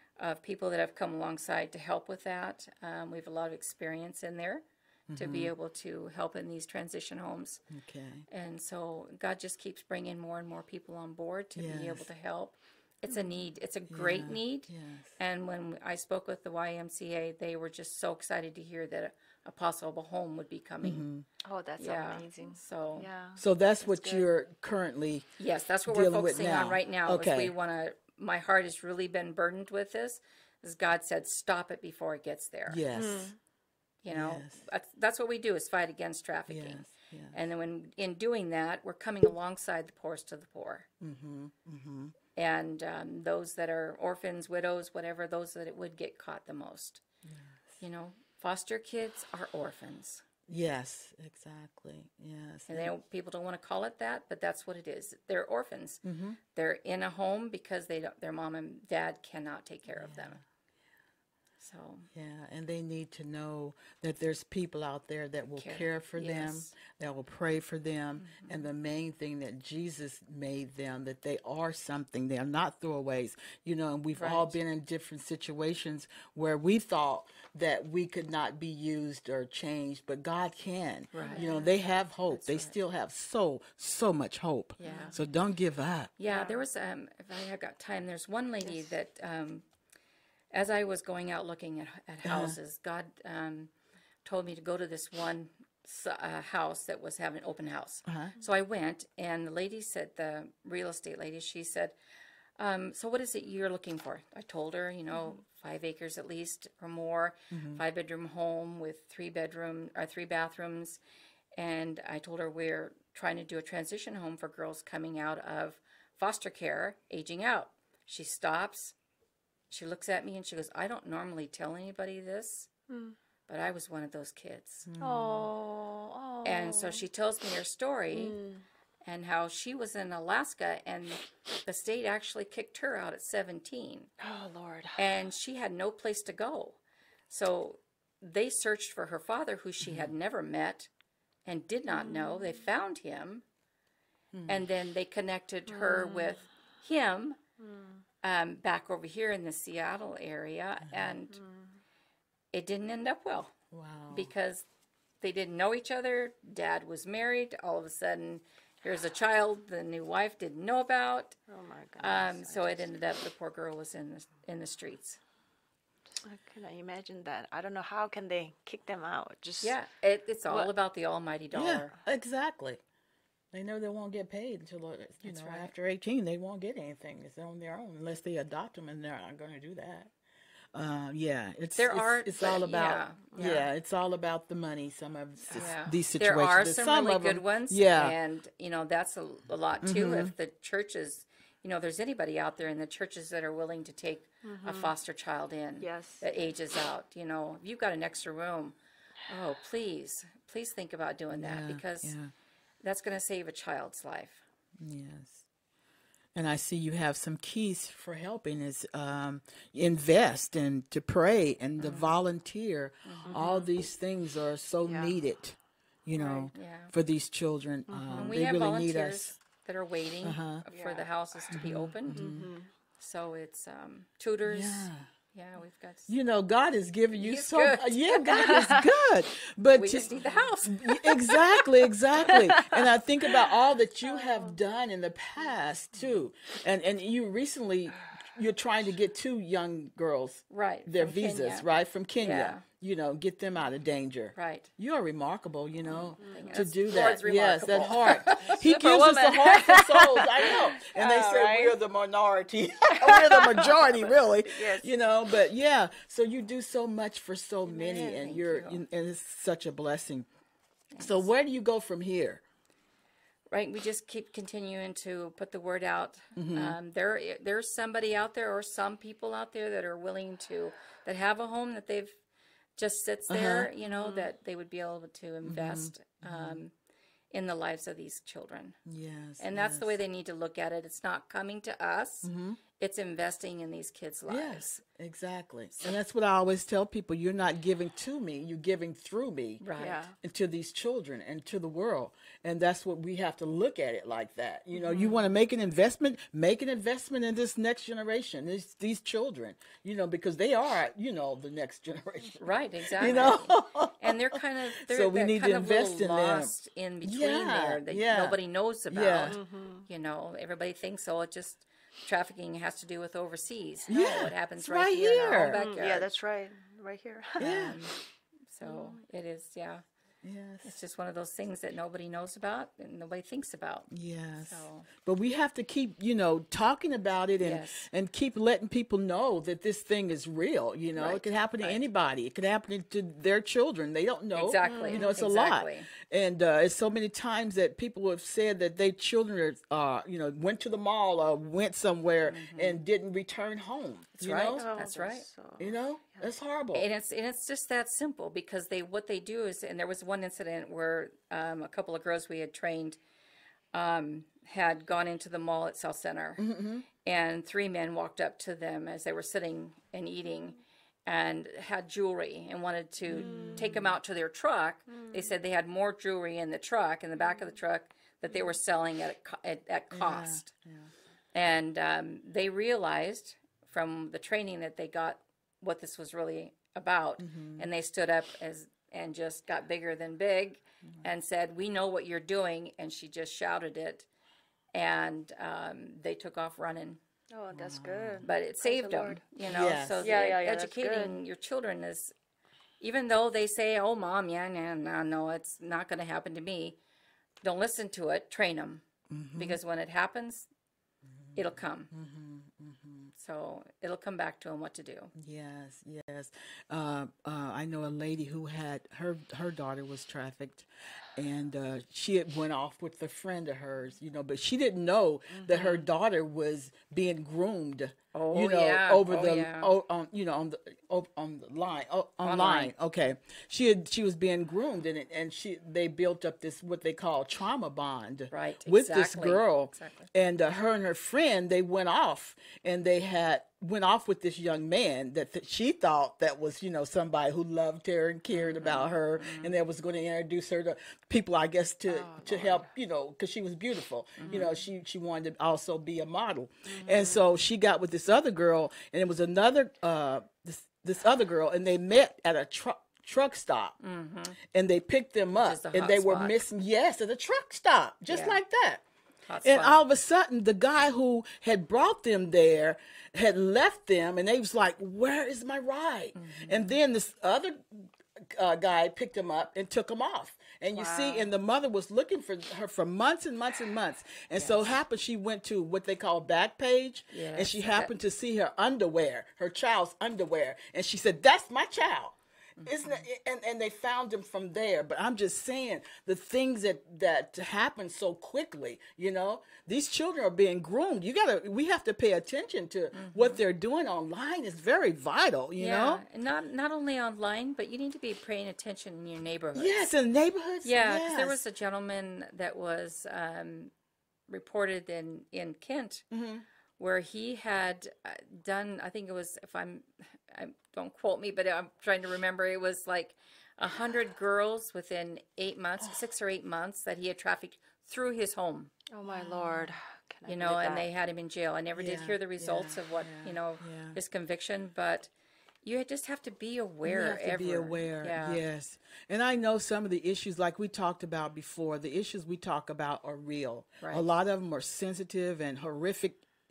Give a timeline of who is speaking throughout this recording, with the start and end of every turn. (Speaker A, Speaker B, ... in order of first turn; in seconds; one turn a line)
Speaker A: 0.2-7.6
Speaker B: 5.1-5.5
Speaker B: 7.7-8.3
Speaker A: 8.3-21.0
Speaker B: 11.6-12.1
Speaker C: 13.1-13.4
Speaker B: 13.9-15.1
Speaker B: 20.8-21.3
Speaker C: 21.4-24.3
Speaker A: 21.8-23.1
Speaker B: 23.4-25.3
Speaker A: 25.4-32.8
Speaker B: 25.9-27.5
Speaker B: 32.7-33.3
Speaker C: 32.9-33.4
Speaker A: 34.0-40.9
Speaker B: 34.1-34.6
Speaker B: 36.5-37.4
Speaker B: 41.0-42.1
Speaker A: 42.4-47.0
Speaker B: 47.2-47.8
Speaker A: 47.8-50.2
Speaker B: 50.5-52.9
Speaker A: 52.7-56.0
Speaker B: 56.0-56.4
Speaker A: 56.5-60.4
Speaker B: 60.0-60.4
Speaker A: 61.6-62.1
Speaker B: 62.1-86.1
Speaker A: 65.6-66.7
Speaker A: 74.2-74.5
Speaker A: 81.1-81.6
Speaker C: 81.2-81.7
Speaker A: 82.3-82.7
Speaker A: 84.8-85.2
Speaker C: 84.8-85.2
Speaker A: 86.2-89.7
Speaker C: 86.2-86.6
Speaker C: 88.6-88.9
Speaker A: 90.5-93.7
Speaker B: 92.2-92.6
Speaker A: 94.2-102.0
Speaker B: 98.1-98.3
Speaker A: 102.6-111.0
Speaker B: 107.5-107.8
Speaker A: 111.6-119.0
Speaker A: 119.7-122.7
Speaker C: 122.9-123.2
Speaker A: 123.5-124.9
Speaker B: 124.9-125.5
Speaker C: 125.0-127.0
Speaker A: 126.4-128.4
Speaker C: 128.1-128.6
Speaker A: 129.1-134.1
Speaker C: 134.2-135.0
Speaker A: 134.9-136.8
Speaker A: 137.3-140.9
Speaker B: 139.8-140.1
Speaker A: 141.5-143.4
Speaker C: 141.9-142.6
Speaker B: 144.3-144.7
Speaker A: 144.5-147.4
Speaker C: 145.7-146.4
Speaker C: 147.6-148.0
Speaker A: 148.2-151.4
Speaker B: 150.8-151.2
Speaker C: 151.3-151.7
Speaker A: 152.5-153.5
Speaker B: 153.7-154.3
Speaker A: 154.1-154.7
Speaker A: 155.2-161.4
Speaker C: 161.5-162.9
Speaker A: 162.0-165.2
Speaker C: 166.2-169.8
Speaker A: 169.6-171.9
Speaker B: 171.5-172.8
Speaker B: 173.5-180.1
Speaker A: 175.2-175.7
Speaker B: 180.7-188.2
Speaker A: 181.8-183.7
Speaker C: 183.3-183.6
Speaker A: 185.5-198.8
Speaker B: 189.8-190.3
Speaker C: 194.4-194.9
Speaker C: 195.8-196.2
Speaker A: 199.3-202.2
Speaker B: 201.3-202.3
Speaker A: 202.8-204.4
Speaker B: 204.8-205.4
Speaker B: 206.3-219.3
Speaker A: 211.8-212.1
Speaker A: 213.1-213.6
Speaker C: 213.3-213.7
Speaker C: 214.8-215.2
Speaker A: 216.2-216.9
Speaker C: 217.9-218.3
Speaker A: 218.2-222.4
Speaker B: 220.2-220.6
Speaker C: 220.7-222.7
Speaker B: 221.5-222.5
Speaker A: 223.0-226.1
Speaker B: 224.4-225.1
Speaker B: 226.1-230.1
Speaker A: 227.1-228.5
Speaker C: 228.4-228.9
Speaker A: 229.7-231.0
Speaker C: 230.1-231.7
Speaker B: 230.7-260.3
Speaker C: 232.3-233.5
Speaker C: 234.1-234.6
Speaker A: 240.5-241.7
Speaker A: 242.2-242.6
Speaker A: 244.3-244.7
Speaker C: 246.2-246.7
Speaker A: 246.2-248.8
Speaker C: 248.1-251.3
Speaker A: 250.4-251.7
Speaker C: 252.9-253.8
Speaker C: 257.7-258.3
Speaker A: 258.0-258.8
Speaker A: 260.9-261.3
Speaker B: 261.0-262.4
Speaker A: 263.5-272.1
Speaker B: 266.4-266.8
Speaker A: 272.8-276.7
Speaker B: 273.3-273.7
Speaker C: 273.8-274.3
Speaker B: 275.4-276.6
Speaker A: 277.3-278.8
Speaker B: 278.9-280.0
Speaker A: 279.4-284.8
Speaker B: 282.2-282.6
Speaker B: 284.3-306.5
Speaker A: 289.6-290.0
Speaker C: 289.8-290.1
Speaker C: 294.7-295.2
Speaker A: 302.4-316.1
Speaker B: 307.0-308.4
Speaker B: 308.9-309.4
Speaker C: 309.3-309.9
Speaker B: 313.9-315.6
Speaker C: 315.5-317.8
Speaker B: 317.4-317.8
Speaker A: 317.4-317.9
Speaker A: 318.5-319.8
Speaker C: 318.6-319.0
Speaker B: 320.2-320.7
Speaker A: 320.6-323.9
Speaker B: 323.9-344.6
Speaker A: 324.4-324.9
Speaker A: 327.4-327.9
Speaker A: 330.9-331.8
Speaker A: 334.3-335.9
Speaker C: 334.6-335.1
Speaker A: 342.3-342.8
Speaker C: 344.2-346.4
Speaker A: 344.6-345.2
Speaker B: 345.6-346.9
Speaker A: 346.7-353.0
Speaker A: 353.7-356.4
Speaker B: 356.4-356.9
Speaker A: 357.0-370.5
Speaker B: 363.1-363.9
Speaker C: 363.1-363.8
Speaker C: 364.9-365.3
Speaker B: 369.9-370.9
Speaker A: 371.3-384.1
Speaker B: 377.2-377.7
Speaker A: 384.7-387.0
Speaker C: 387.3-389.3
Speaker B: 387.5-388.3
Speaker A: 388.2-392.1
Speaker B: 389.5-390.1
Speaker C: 390.0-391.2
Speaker A: 392.8-396.8
Speaker A: 397.4-398.8
Speaker B: 399.1-399.6
Speaker A: 399.4-400.5
Speaker B: 401.2-403.1
Speaker A: 401.4-401.9
Speaker A: 403.2-405.1
Speaker B: 405.1-453.8
Speaker A: 415.5-415.9
Speaker A: 418.1-419.7
Speaker A: 422.2-422.7
Speaker A: 428.3-430.1
Speaker A: 438.3-439.6
Speaker C: 441.9-442.7
Speaker A: 444.2-444.5
Speaker C: 444.3-444.5
Speaker C: 446.7-447.2
Speaker A: 453.8-454.4
Speaker B: 454.4-458.8
Speaker A: 455.4-456.4
Speaker A: 458.1-458.4
Speaker A: 459.3-459.8
Speaker B: 459.4-496.0
Speaker A: 466.1-466.8
Speaker C: 470.8-471.3
Speaker A: 474.4-474.7
Speaker A: 477.1-477.9
Speaker A: 482.6-483.0
Speaker A: 492.9-493.4
Speaker A: 495.6-499.9
Speaker B: 499.6-501.4
Speaker A: 500.6-503.7
Speaker A: 504.3-506.1
Speaker B: 506.1-506.4
Speaker A: 506.8-518.8
Speaker C: 518.9-520.9
Speaker B: 519.0-519.8
Speaker A: 520.3-525.1
Speaker B: 521.8-524.0
Speaker A: 525.6-528.4
Speaker B: 526.9-536.2